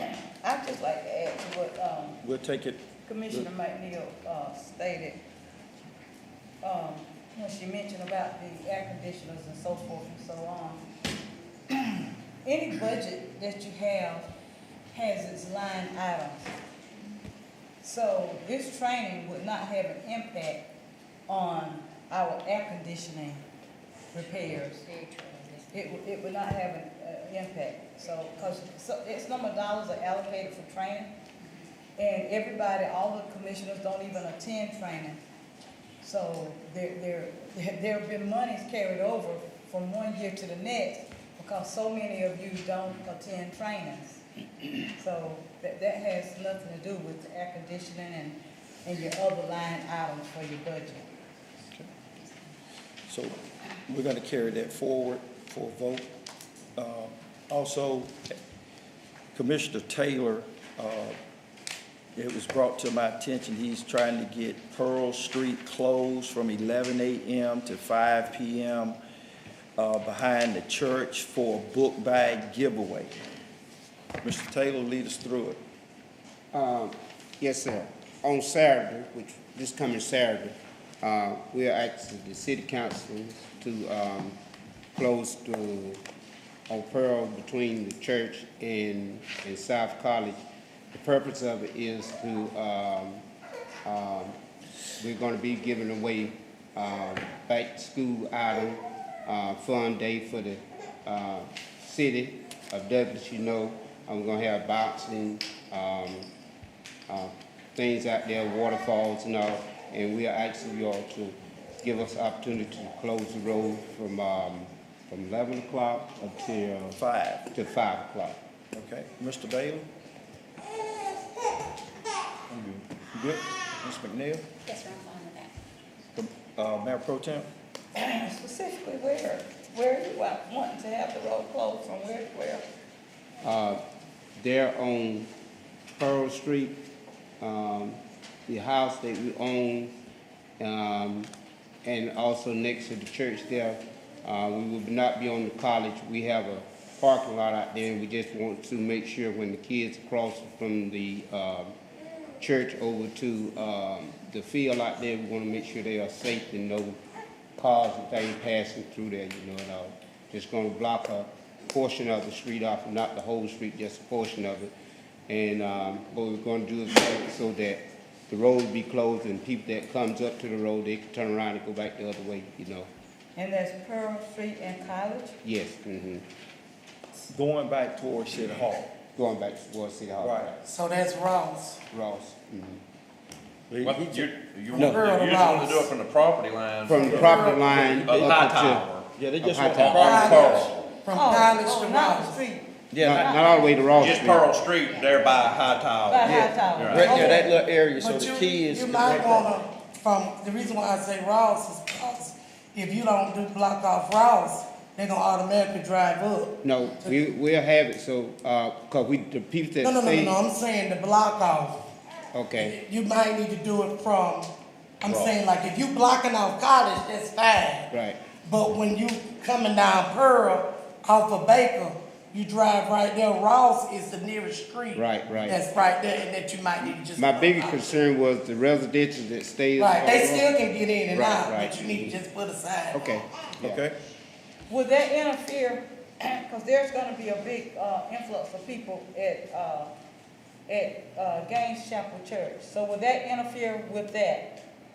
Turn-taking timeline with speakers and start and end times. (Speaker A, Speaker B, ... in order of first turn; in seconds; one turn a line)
Speaker A: 0.4-2.2
Speaker B: 2.2-3.5
Speaker A: 3.0-5.2
Speaker A: 6.6-10.8
Speaker A: 11.7-14.3
Speaker A: 14.9-16.6
Speaker A: 17.8-20.7
Speaker A: 21.3-23.4
Speaker A: 24.1-24.9
Speaker C: 24.6-25.8
Speaker A: 25.7-31.1
Speaker A: 32.0-35.2
Speaker A: 36.0-44.2
Speaker A: 44.8-51.1
Speaker B: 53.1-56.1
Speaker B: 56.8-58.4
Speaker B: 59.3-61.2
Speaker B: 62.2-69.0
Speaker B: 69.8-73.2
Speaker B: 74.2-75.6
Speaker D: 76.5-84.4
Speaker D: 85.0-86.0
Speaker D: 86.7-90.4
Speaker D: 90.9-93.2
Speaker D: 93.8-94.4
Speaker D: 95.0-106.3
Speaker D: 107.1-117.0
Speaker B: 116.9-117.5
Speaker D: 117.5-118.4
Speaker B: 118.7-119.9
Speaker B: 122.5-124.5
Speaker C: 124.6-125.5
Speaker B: 126.2-127.5
Speaker A: 128.0-132.7
Speaker D: 133.4-133.8
Speaker D: 134.4-135.3
Speaker D: 135.9-136.8
Speaker D: 137.4-139.9
Speaker D: 140.6-141.3
Speaker D: 141.8-151.8
Speaker D: 152.4-157.0
Speaker D: 157.6-164.7
Speaker D: 165.3-172.9
Speaker A: 173.4-175.4
Speaker D: 175.4-176.2
Speaker B: 177.3-178.9
Speaker D: 179.2-180.6
Speaker B: 180.2-180.6
Speaker E: 180.6-181.8
Speaker D: 181.9-182.8
Speaker B: 183.7-184.3
Speaker F: 183.8-189.2
Speaker E: 184.7-185.9
Speaker D: 184.8-185.0
Speaker D: 186.9-190.7
Speaker E: 187.0-187.7
Speaker B: 189.2-190.7
Speaker F: 189.8-190.8
Speaker E: 189.9-192.4
Speaker A: 191.1-194.1
Speaker B: 192.9-193.5
Speaker D: 193.0-194.5
Speaker F: 194.0-197.3
Speaker C: 195.0-195.4
Speaker A: 196.1-197.5
Speaker B: 196.2-199.6
Speaker E: 197.1-207.2
Speaker D: 206.6-210.4
Speaker E: 209.8-211.8
Speaker D: 212.3-212.8
Speaker E: 212.6-217.9
Speaker D: 215.1-215.4
Speaker D: 217.9-218.2
Speaker E: 218.5-227.9
Speaker D: 224.9-225.6
Speaker D: 227.2-230.5
Speaker E: 229.8-233.0
Speaker D: 231.1-232.2
Speaker D: 232.9-233.8
Speaker B: 233.6-233.9
Speaker A: 234.7-239.9
Speaker A: 240.7-244.6